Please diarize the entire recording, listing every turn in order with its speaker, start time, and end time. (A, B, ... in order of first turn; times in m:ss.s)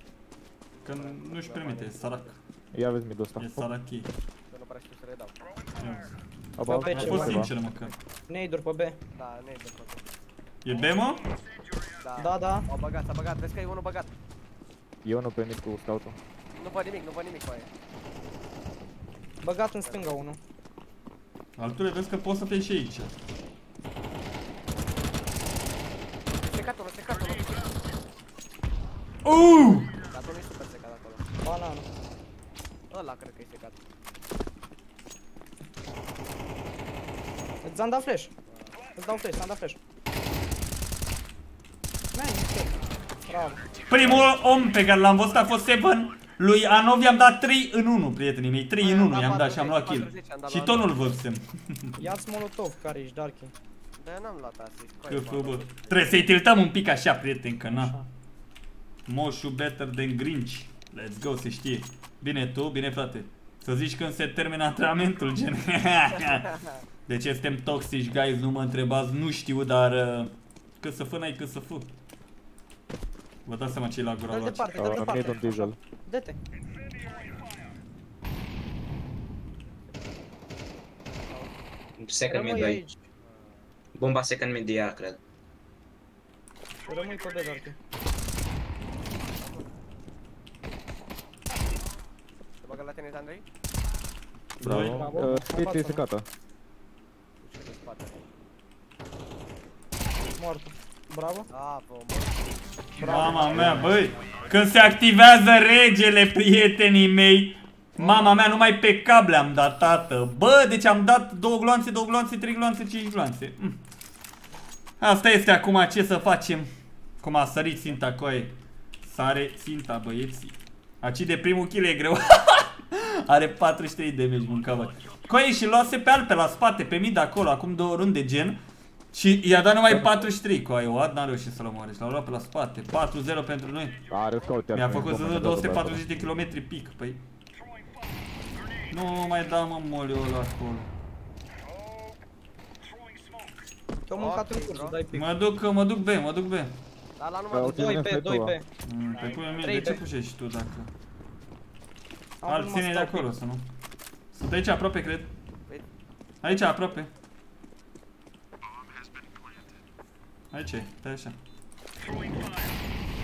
0:00.7-0:02.4 A
0:00.8-0:02.4 B
0:02.7-0:03.7 C
0:03.4-0:04.1 B
0:04.5-0:05.3 A
0:05.8-0:06.1 B
0:06.6-0:07.5 C
0:06.6-0:07.5 D
0:06.8-0:07.9 B
0:08.3-0:09.0 D
0:09.1-0:10.0 A
0:10.6-0:11.2 B
0:12.0-0:14.1 A
0:12.2-0:12.7 D
0:15.0-0:16.2 C
0:16.5-0:17.7 A
0:19.4-0:20.4 D
0:19.8-0:20.2 A
0:21.6-0:23.1 B
0:26.4-0:27.9 A
0:29.2-0:29.9 B
0:29.6-0:31.2 A
0:31.4-0:31.9 D
0:32.9-0:33.8 A
0:37.6-0:38.3 D
0:39.0-0:39.8 D
0:42.1-0:43.6 D
0:43.9-0:52.0 B
0:44.0-0:44.2 C
0:48.8-0:51.2 A
0:52.0-0:53.5 D
0:54.0-0:56.3 A
0:55.1-0:57.9 B
0:57.7-0:58.1 D
0:59.1-1:11.9 B
1:13.4-1:14.8 B
1:14.3-1:16.4 D
1:14.7-1:15.8 C
1:21.3-1:21.6 A
1:22.0-1:22.8 E
1:22.3-1:23.0 D
1:23.2-1:23.7 A
1:23.9-1:25.2 E
1:26.8-1:27.8 D
1:29.4-1:29.7 A
1:32.6-1:33.4 A
1:34.6-1:36.2 C
1:34.6-1:35.4 B
1:34.6-1:36.0 D
1:37.4-1:38.2 A
1:40.4-1:41.5 D
1:41.5-1:42.5 A
1:43.0-1:43.9 D
1:43.0-1:53.8 B
1:43.1-1:44.0 C
1:43.8-1:44.4 A
1:48.0-1:48.3 D
1:55.0-1:56.7 B
1:57.2-2:08.6 B
2:09.1-2:14.0 B
2:09.9-2:10.3 C
2:14.1-2:16.2 C
2:14.7-2:17.2 B
2:18.9-2:20.9 B
2:24.1-2:25.3 D
2:24.2-2:25.0 A
2:25.1-2:26.7 B
2:27.2-2:28.0 A
2:27.5-2:28.6 C
2:27.6-2:28.7 D
2:28.8-2:30.9 B
2:29.1-2:30.0 A
2:29.6-2:30.0 D
2:32.4-2:33.4 D
2:32.4-2:33.7 B
2:34.3-2:35.3 B
2:36.4-2:37.1 B
2:36.5-2:36.8 A
2:40.5-2:41.4 B